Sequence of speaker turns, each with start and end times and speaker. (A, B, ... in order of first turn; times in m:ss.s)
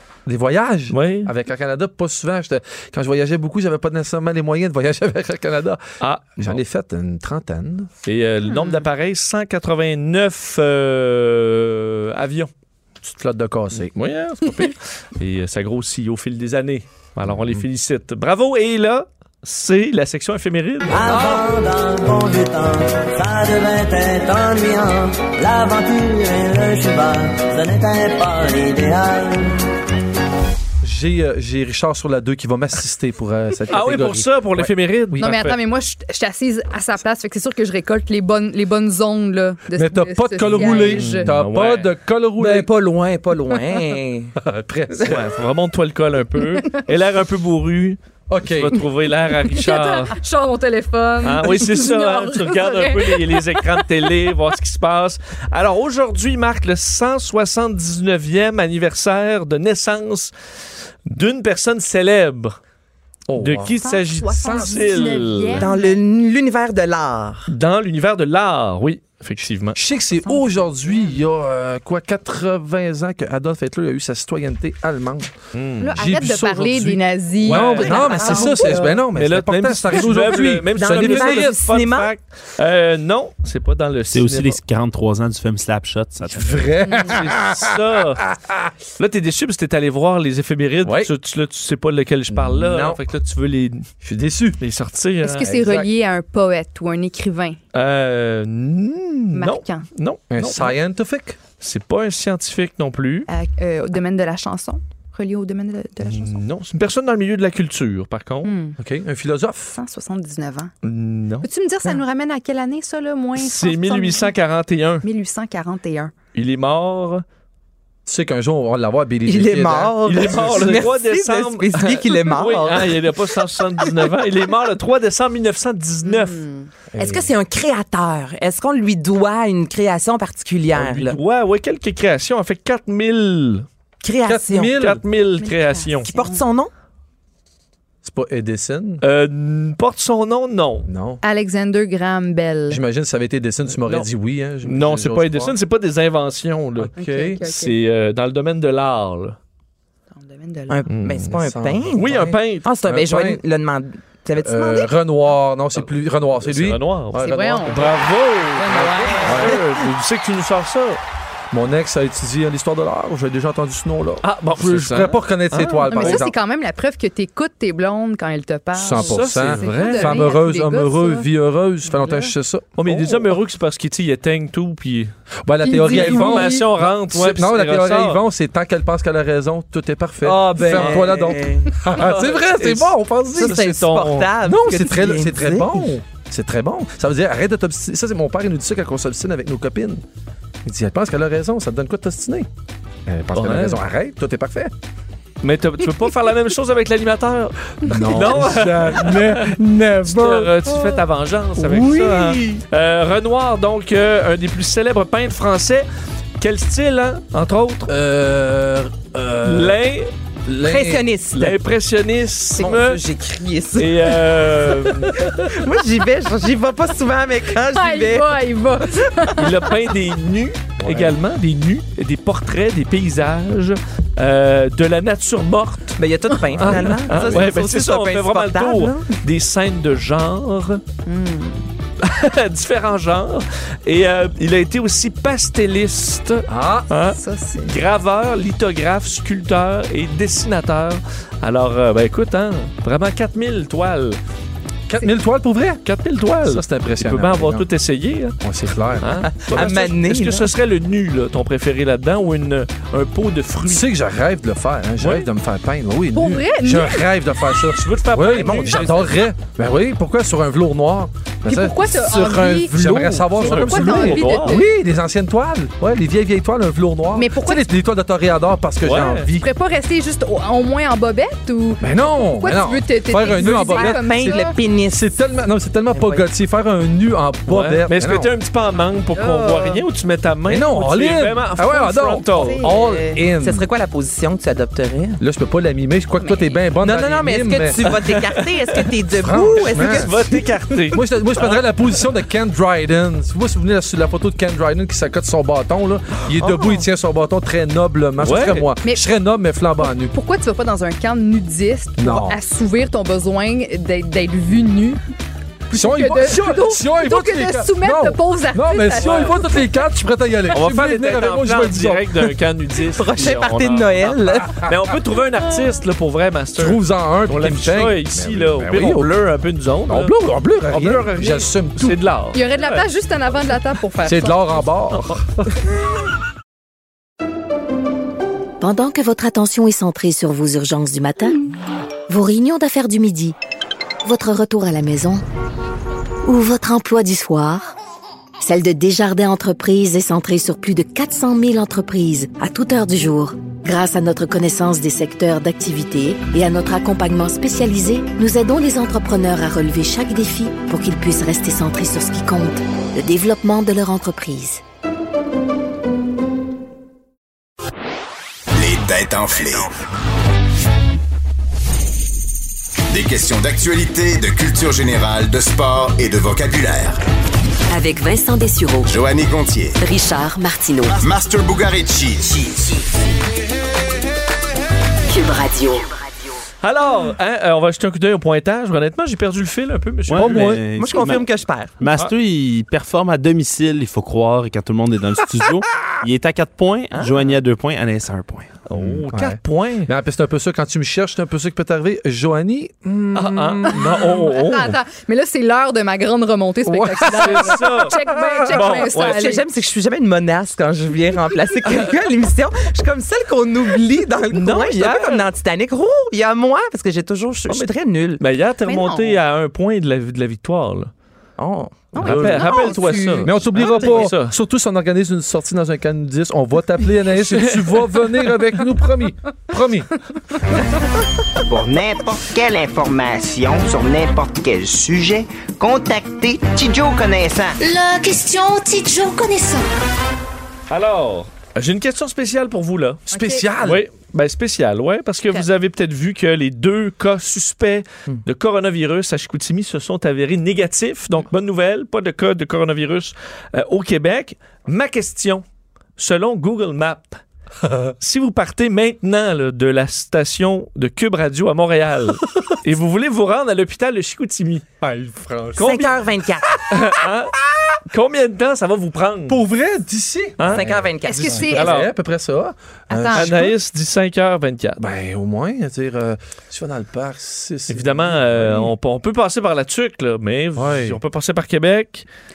0:00.3-0:05.8 A
0:00.9-0:01.3 B
0:06.0-0:06.6 B
0:06.4-0:07.9 A
0:08.1-0:12.5 B
0:08.5-0:08.8 C
0:13.0-0:14.5 A
0:13.8-0:21.2 B
0:17.3-0:17.6 A
0:20.9-0:29.6 D
0:21.1-0:21.4 A
0:30.8-0:35.4 A
0:33.7-0:35.6 B
0:35.2-0:41.3 C
0:39.7-0:42.7 A
0:40.5-0:41.9 B
0:42.4-0:44.4 E
0:44.4-0:45.2 A
0:45.1-0:50.2 B
0:48.3-0:48.8 A
0:49.5-0:53.9 C
0:51.2-1:00.3 B
1:01.1-1:02.6 B
1:03.3-1:05.2 A
1:03.4-1:05.7 B
1:03.8-1:06.0 C
1:05.6-1:07.5 E
1:07.5-1:09.8 B
1:09.8-1:21.6 A
1:10.1-1:11.2 C
1:15.5-1:16.0 B
1:15.8-1:19.0 C
1:17.4-1:24.6 B
1:17.8-1:18.8 E
1:20.8-1:22.1 E
1:24.1-1:26.7 F
1:26.3-1:28.7 A
1:26.9-1:27.1 C
1:27.0-1:28.3 B
1:29.0-1:33.9 B
1:30.8-1:31.1 A
1:32.3-1:33.0 A
1:34.0-1:34.6 A
1:34.6-1:35.7 B
1:35.2-1:37.6 C
1:35.5-1:35.9 A
1:37.7-1:40.8 B
1:39.3-1:39.9 C
1:40.3-1:41.4 A
1:41.6-1:43.3 B
1:43.3-1:46.4 C
1:46.0-1:48.5 B
1:48.4-1:48.8 C
1:48.8-1:49.8 A
1:49.8-1:50.7 C
1:50.8-1:51.5 B
1:51.4-1:54.3 C
1:53.4-1:55.1 B
1:55.0-1:56.1 C
1:56.3-1:57.2 B
1:58.1-2:00.8 A
1:59.3-2:03.1 E
2:00.0-2:06.4 B
2:06.0-2:06.7 C
2:06.9-2:07.3 A
2:07.0-2:11.2 E
2:10.7-2:13.7 B
2:14.0-2:14.8 E
2:14.2-2:15.0 A
2:14.8-2:16.1 B
2:15.4-2:16.4 C
2:16.1-2:16.7 E
2:18.0-2:19.0 A
2:19.0-2:20.9 B
2:20.8-2:21.2 A
2:21.2-2:22.8 C
2:22.7-2:25.6 A
2:24.6-2:26.9 B
2:26.8-2:27.4 A
2:27.0-2:27.8 C
2:27.4-2:29.4 B
2:30.1-2:30.8 C
2:30.7-2:34.9 E
2:30.9-2:31.4 B
2:31.3-2:33.4 A
2:32.0-2:32.7 B
2:34.4-2:37.9 A
2:36.4-2:41.0 B
2:37.2-2:37.9 C
2:38.6-2:39.5 C
2:38.7-2:39.6 A
2:41.5-2:46.3 A
2:44.2-2:46.2 B
2:45.9-2:51.3 C
2:48.8-2:53.4 A
2:48.9-2:50.3 B
2:51.9-2:52.3 C
2:52.8-2:55.1 B
2:55.4-3:03.7 A
2:55.6-2:56.7 C
2:55.8-2:58.2 B
3:00.2-3:01.4 B
3:00.5-3:01.7 E
3:01.9-3:04.3 B
3:03.4-3:05.9 E
3:04.4-3:10.0 A
3:10.6-3:12.5 A
3:13.1-3:14.7 A
3:13.3-3:13.8 B
3:15.4-3:25.9 B
3:17.8-3:21.0 A
3:21.6-3:22.6 A
3:26.4-3:27.9 B
3:27.9-3:29.8 A
3:29.4-3:30.1 B
3:30.5-3:31.0 A
3:30.6-3:31.6 E
3:31.4-3:33.0 B
3:32.6-3:38.4 E
3:33.8-3:35.4 B
3:37.7-3:39.6 C
3:39.4-3:46.0 B
3:40.8-3:41.2 A
3:46.0-3:49.2 E
3:46.6-3:47.5 A
3:46.6-3:50.8 B
3:51.1-3:51.7 C
3:52.0-4:04.2 B
3:56.5-3:56.9 A
3:57.1-3:57.8 C
4:04.9-4:05.8 A
4:05.8-4:08.4 B
4:06.4-4:07.7 A
4:08.4-4:09.1 A
4:09.0-4:13.9 B
4:09.3-4:10.5 E
4:13.6-4:29.5 A
4:15.0-4:15.3 B
4:16.1-4:17.1 C
4:17.7-4:19.1 B
4:18.3-4:19.1 E
4:21.5-4:24.7 C
4:23.4-4:24.6 B
4:27.1-4:27.6 C
4:28.8-4:29.3 B
4:29.4-4:34.6 C
4:31.8-4:38.3 A
4:33.3-4:35.1 E
4:35.9-4:36.2 E
4:37.5-4:42.6 B
4:39.2-4:39.8 C
4:40.5-4:43.7 A
4:42.2-4:43.2 C
4:42.6-4:45.2 E
4:45.2-4:48.0 A
4:46.2-4:46.6 C
4:46.8-4:50.4 E
4:47.9-4:48.9 B
4:49.2-4:50.1 A
4:49.5-4:51.6 B
4:50.9-5:00.1 A
4:56.4-4:56.8 E
4:58.2-4:58.7 B
4:59.9-5:05.0 C
5:02.0-5:02.4 A
5:05.7-5:09.4 C
5:05.7-5:12.2 A
5:09.0-5:09.4 B
5:10.5-5:20.2 B
5:12.9-5:14.6 E
5:16.6-5:19.1 A
5:19.9-5:22.0 A
5:20.7-5:22.9 B
5:22.3-5:24.6 C
5:24.0-5:25.5 A
5:24.9-5:25.2 B
5:28.6-5:31.4 G
5:32.1-5:33.4 G
5:34.0-5:35.2 G
5:36.2-5:37.7 G
5:38.4-5:54.6 G
5:58.5-5:59.7 H
6:02.9-6:07.0 H
6:07.7-6:08.9 I
6:08.9-6:09.8 H
6:09.8-6:11.0 I
6:10.9-6:12.5 H
6:15.1-6:15.9 I
6:16.6-6:20.6 B
6:20.1-6:28.5 F
6:20.2-6:20.6 A
6:20.7-6:21.8 E
6:26.9-6:27.4 E
6:28.7-6:29.9 B
6:28.8-6:34.2 A
6:33.2-6:34.8 B
6:33.7-6:39.4 C
6:36.6-6:38.8 A
6:37.1-6:38.0 B
6:38.5-6:39.3 B
6:39.0-6:48.2 E
6:44.3-6:45.3 B
6:47.5-6:50.9 B
6:48.6-6:49.2 C
6:51.4-6:53.0 E
6:52.0-6:53.8 C
6:52.0-6:52.7 A
6:52.0-6:54.4 B
6:53.2-6:59.9 A
6:57.1-6:58.0 B
7:01.5-7:07.6 J
7:07.6-7:09.6 K
7:10.7-7:13.0 B
7:13.1-7:13.8 A
7:13.1-7:13.5 C
7:13.6-7:25.4 B
7:26.0-7:27.2 B
7:27.6-7:27.9 A
7:28.0-7:34.7 B
7:34.8-7:35.9 A
7:35.6-7:36.0 B
7:35.6-7:36.7 E
7:36.7-7:39.4 B
7:39.3-7:43.5 A
7:40.4-7:40.7 B
7:40.5-7:41.7 E
7:41.0-7:41.8 C
7:41.5-7:41.9 B
7:42.9-7:43.3 C
7:43.1-7:44.8 B
7:44.8-7:48.7 A
7:47.7-7:52.1 B
7:50.6-7:51.0 A